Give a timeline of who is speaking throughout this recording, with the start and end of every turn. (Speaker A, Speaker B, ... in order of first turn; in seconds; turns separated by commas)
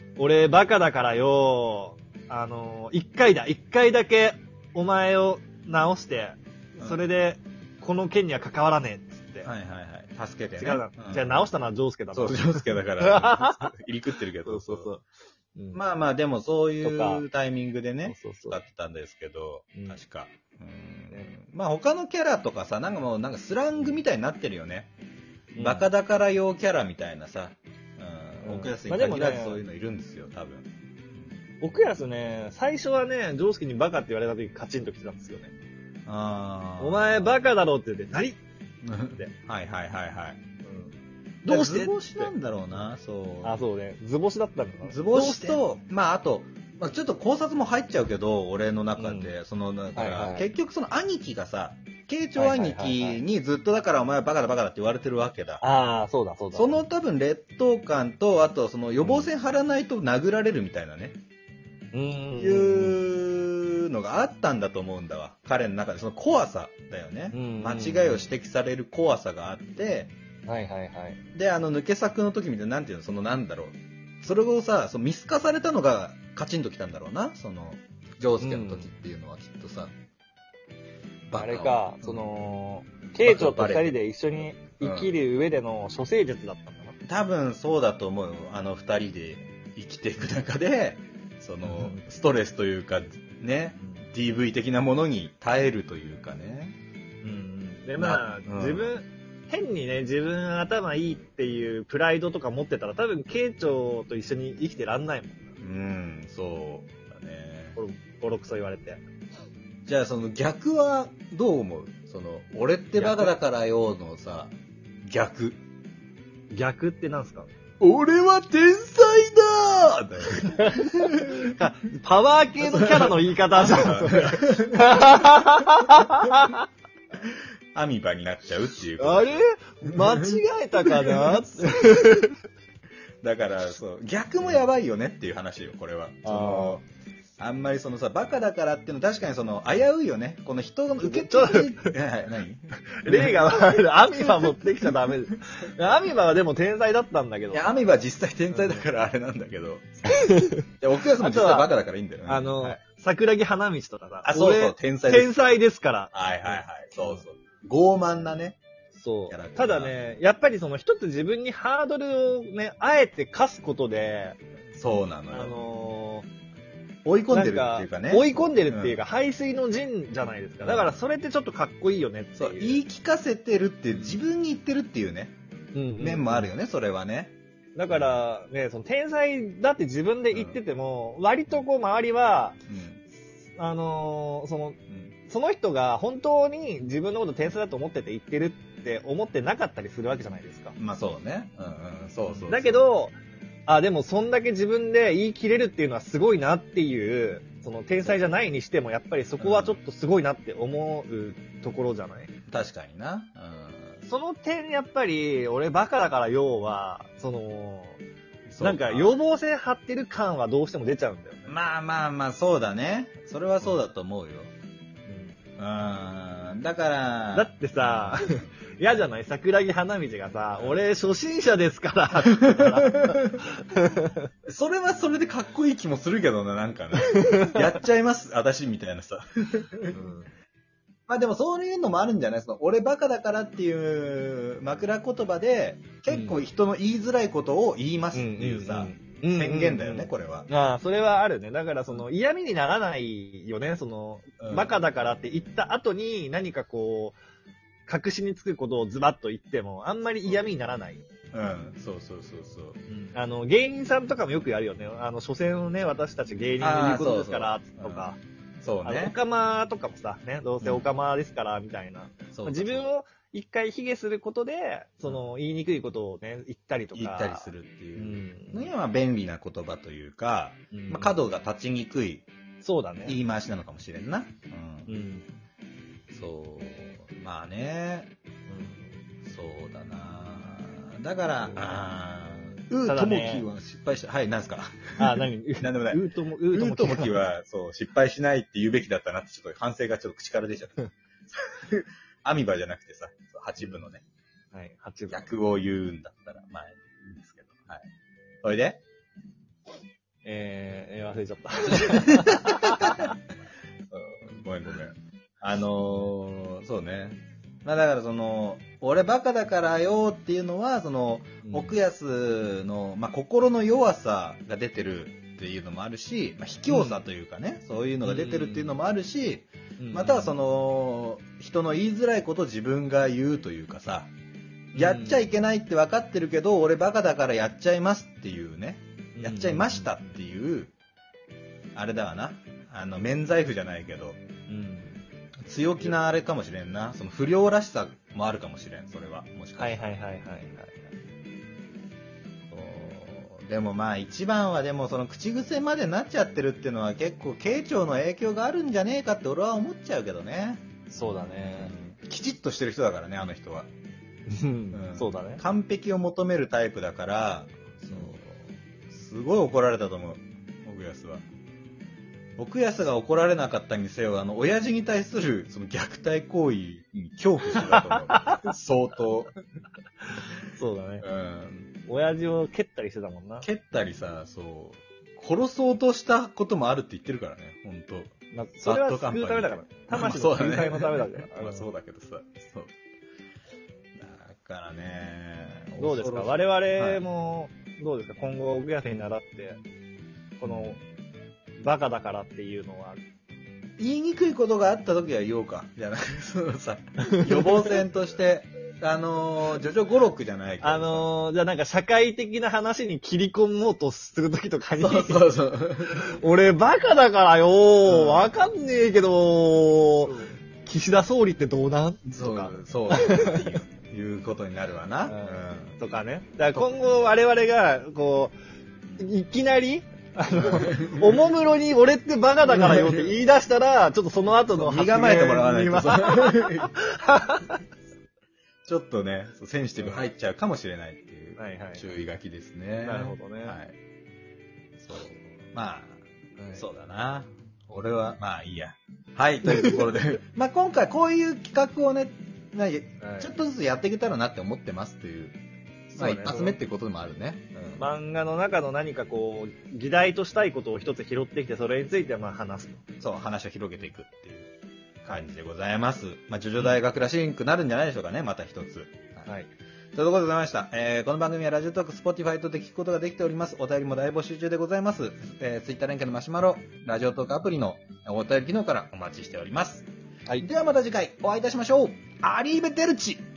Speaker A: 0.2-9.5, Speaker B: 9.4-11.5, Speaker A: 10.6-13.7, Speaker B: 12.1-14.9, Speaker A: 14.4-15.1, Speaker A: 15.6-15.8, Speaker B: 15.7-24.9, Speaker A: 16.8-17.2, Speaker A: 18.1-18.6, Speaker A: 25.6-25.9, Speaker B: 25.6-30.7, Speaker A: 28.4-29.6, Speaker A: 31.6-35.5, Speaker B: 36.1-37.4, Speaker A: 36.8-38.4, Speaker B: 38.8-40.4, Speaker A: 40.6-42.3, Speaker B: 41.5-43.5, Speaker A: 43.4-45.6, Speaker B: 44.9-55.6, Speaker A: 49.0-49.3, Speaker A: 50.0-50.5, Speaker A: 52.4-53.2, Speaker A: 55.6-56.8, Speaker B: 56.5-61.2, Speaker A: 59.0-59.3, Speaker A: 61.9-63.0, Speaker B: 62.4-70.1, Speaker A: 67.3-68.2, Speaker A: 70.5-71.2, Speaker B: 71.3-79.9, Speaker A: 78.4-78.9, Speaker B: 81.3-82.2, Speaker A: 81.4-87.0, Speaker B: 83.2-84.0, Speaker B: 84.8-85.1, Speaker B: 87.1-96.8, Speaker A: 91.7-92.0, Speaker A: 97.2-105.5, Speaker B: 98.0-99.0, Speaker B: 105.6-107.8, Speaker A: 107.8-109.0, Speaker B: 109.9-115.6, Speaker A: 113.0-113.4, Speaker A: 116.5-117.5, Speaker B: 117.8-121.6, Speaker A: 120.6-126.6, Speaker B: 122.7-125.2, Speaker B: 127.3-129.3, Speaker A: 129.0-132.3, Speaker B: 129.9-130.1, Speaker B: 130.9-132.2, Speaker B: 133.2-136.8, Speaker A: 136.2-136.8, Speaker B: 137.4-143.4, Speaker A: 141.0-141.9, Speaker A: 143.0-147.6, Speaker B: 147.5-152.8, Speaker A: 148.5-148.8, Speaker A: 150.1-150.6, Speaker A: 151.2-151.7, Speaker A: 152.3-157.2, Speaker B: 154.2-155.3, Speaker B: 156.1-158.6, Speaker A: 158.9-164.4, Speaker B: 159.3-159.9, Speaker B: 164.8-165.6, Speaker A: 165.3-166.3, Speaker B: 167.1-168.9, Speaker A: 167.3-172.8, Speaker B: 170.6-170.9, Speaker B: 172.4-175.3, Speaker A: 175.7-176.5, Speaker B: 176.0-177.3, Speaker A: 177.8-182.6, Speaker B: 177.9-178.2, Speaker B: 180.3-180.6, Speaker B: 182.7-183.0, Speaker A: 183.6-190.8, Speaker B: 190.8-192.8, Speaker A: 192.3-202.3, Speaker B: 199.4-199.8, Speaker B: 202.5-204.0, Speaker A: 204.1-208.0, Speaker B: 208.5-209.1, Speaker A: 208.6-211.5, Speaker B: 211.5-214.5, Speaker A: 215.1-215.4, Speaker B: 215.6-218.4, Speaker A: 217.3-224.2, Speaker B: 222.3-223.4, Speaker B: 224.5-230.0, Speaker A: 227.0-227.6, Speaker A: 229.9-230.3, Speaker B: 231.1-240.5, Speaker A: 236.1-236.4, Speaker A: 238.1-247.2, Speaker B: 244.4-244.7, Speaker A: 247.9-251.0, Speaker B: 251.3-252.8, Speaker A: 252.9-258.2, Speaker B: 256.6-258.1, Speaker B: 258.6-259.2, Speaker A: 258.8-268.7, Speaker B: 262.3-262.9, Speaker B: 266.9-272.3, Speaker A: 270.7-271.1, Speaker A: 272.6-273.2, Speaker B: 273.1-274.9, Speaker A: 274.9-275.2, Speaker B: 276.1-278.1, Speaker A: 278.5-278.9, Speaker B: 279.2-286.0, Speaker A: 282.8-283.5, Speaker A: 285.0-287.2, Speaker B: 286.5-294.0, Speaker A: 294.5-295.3, Speaker B: 295.1-297.8, Speaker B: 298.4-298.8, Speaker A: 300.2-303.1, Speaker B: 302.4-303.1, Speaker B: 303.9-324.1, Speaker A: 311.4-311.8, Speaker A: 316.7-317.0, Speaker A: 318.0-318.7, Speaker A: 319.8-320.4, Speaker A: 324.8-325.2, Speaker B: 324.8-330.7, Speaker A: 329.2-329.9, Speaker B: 331.8-334.2, Speaker A: 334.5-335.0, Speaker B: 335.5-339.8, Speaker A: 339.6-340.9, Speaker B: 342.5-353.7, Speaker A: 350.9-351.7, Speaker A: 354.3-355.4, Speaker B: 354.7-361.2, Speaker B: 362.4-369.4, Speaker A: 367.5-368.5, Speaker A: 370.6-371.1, Speaker B: 371.0-371.8, Speaker A: 371.9-373.5, Speaker B: 373.4-382.7, Speaker A: 378.3-381.7, Speaker B: 384.0-387.0, Speaker A: 385.8-389.6, Speaker A: 390.4-390.8, Speaker B: 390.4-390.8, Speaker A: 391.6-393.0, Speaker B: 393.8-401.1, Speaker A: 397.2-397.6, Speaker A: 400.6-413.6, Speaker B: 404.8-406.1, Speaker B: 407.9-408.3, Speaker B: 410.0-410.4, Speaker B: 412.1-415.8, Speaker A: 415.1-418.3, Speaker A: 419.0-427.6, Speaker B: 420.3-421.3, Speaker B: 422.5-423.1, Speaker B: 424.5-426.8, Speaker B: 428.7-433.8, Speaker A: 431.4-431.8, Speaker A: 432.8-433.6, Speaker B: 434.8-436.0, Speaker A: 436.4-436.6, Speaker B: 436.5-445.4, Speaker A: 439.5-439.8, Speaker A: 443.0-443.4, Speaker A: 445.9-446.6, Speaker B: 445.9-447.8, Speaker A: 447.8-452.8, Speaker B: 453.0-454.5, Speaker B: 455.0-459.3, Speaker B: 459.9-469.9, Speaker B: 470.4-473.2